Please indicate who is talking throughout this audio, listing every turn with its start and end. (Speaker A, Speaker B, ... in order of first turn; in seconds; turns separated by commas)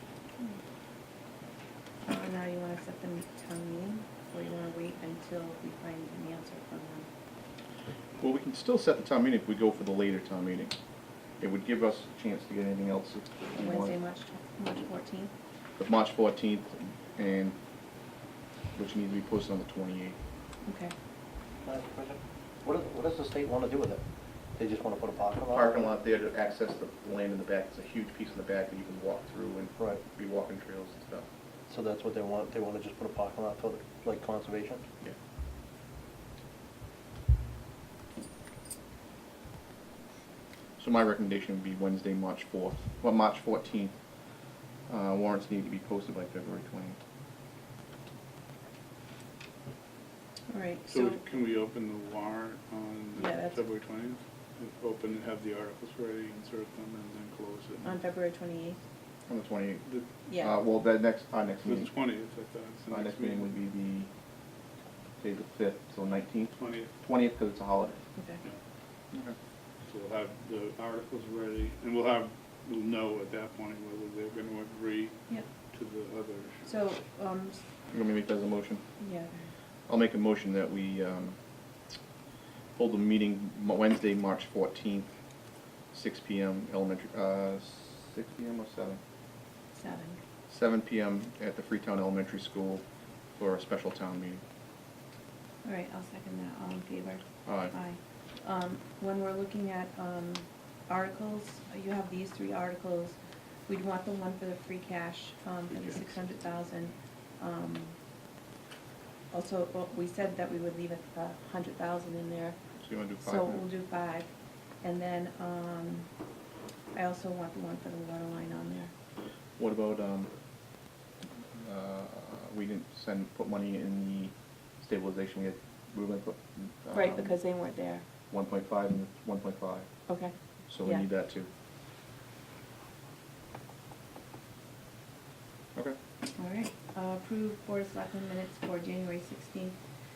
Speaker A: 2.0-7.1, Speaker B: 8.2-10.8, Speaker B: 11.4-13.9, Speaker A: 13.5-15.3, Speaker B: 15.8-17.6, Speaker B: 18.7-20.2, Speaker A: 20.7-20.9, Speaker C: 21.6-24.0, Speaker C: 24.6-25.9, Speaker B: 25.5-31.3, Speaker C: 31.7-34.9, Speaker B: 40.8-44.0, Speaker B: 44.9-47.0, Speaker A: 50.5-51.2, Speaker D: 50.9-58.0, Speaker A: 53.2-53.6, Speaker A: 57.8-58.8, Speaker B: 59.3-61.9, Speaker A: 60.3-60.5, Speaker D: 61.6-63.5, Speaker B: 62.9-64.1, Speaker B: 65.2-68.0, Speaker D: 66.5-66.9, Speaker A: 68.2-68.4, Speaker D: 69.8-75.2, Speaker D: 75.7-76.7, Speaker A: 76.7-77.6, Speaker B: 77.9-78.8, Speaker A: 79.0-79.4, Speaker B: 79.9-81.4, Speaker B: 82.8-85.2, Speaker B: 85.9-89.0, Speaker A: 89.8-90.2, Speaker B: 90.5-92.8, Speaker B: 93.4-94.4, Speaker A: 95.6-108.0, Speaker B: 97.5-97.8, Speaker B: 105.7-106.1, Speaker A: 109.3-112.6, Speaker B: 112.8-113.6, Speaker A: 113.2-114.3, Speaker A: 114.8-116.1, Speaker A: 116.9-118.9, Speaker B: 119.6-120.3, Speaker B: 121.5-127.4, Speaker A: 126.9-128.1, Speaker B: 128.3-129.9, Speaker A: 130.1-131.1, Speaker B: 130.7-131.5, Speaker A: 136.4-139.8